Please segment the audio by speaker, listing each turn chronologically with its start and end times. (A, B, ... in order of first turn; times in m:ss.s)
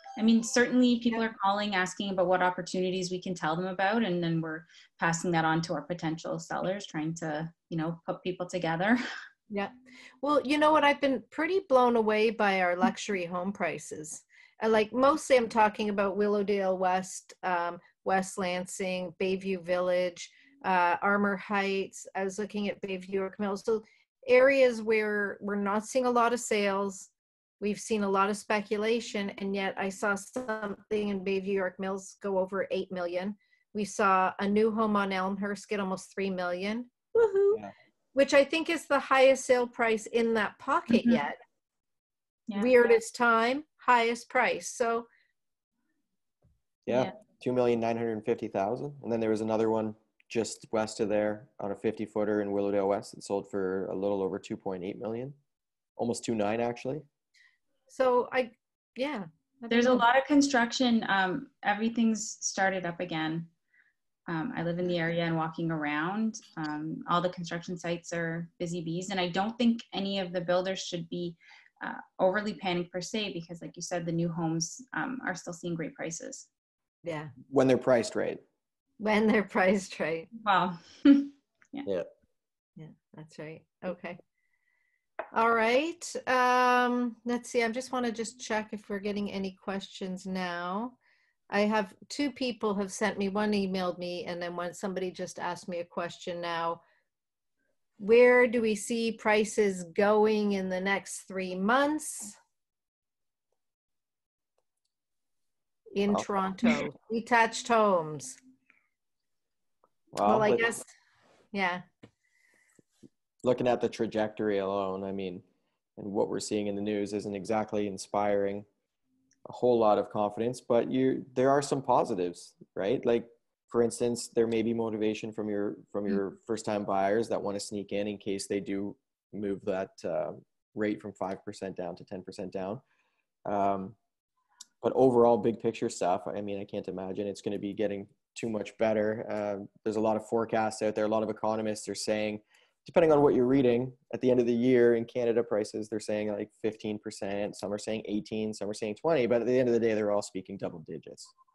0:00.2-0:09.0 A
0:09.5-0:27.1 B
0:27.6-0:37.6 B
0:38.1-0:41.4 B
0:42.5-0:42.7 A
0:42.6-0:45.1 B
0:46.9-0:55.4 C
0:56.0-0:57.0 C
0:57.9-1:00.0 B
0:59.7-1:03.5 A
1:04.3-1:16.5 A
1:17.0-1:17.3 B
1:17.5-1:18.4 C
1:19.0-1:20.3 B
1:20.4-1:21.9 A
1:22.8-1:24.2 B
1:25.3-1:31.0 B
1:31.5-1:36.8 B
1:38.0-1:42.4 B
1:45.9-1:48.4 B
1:50.1-1:50.7 C
1:50.2-1:50.9 B
1:51.5-1:51.8 B
1:53.4-1:55.4 C
1:56.0-1:58.6 C
1:59.5-2:12.8 C
2:13.5-2:14.0 C
2:14.8-2:31.3 C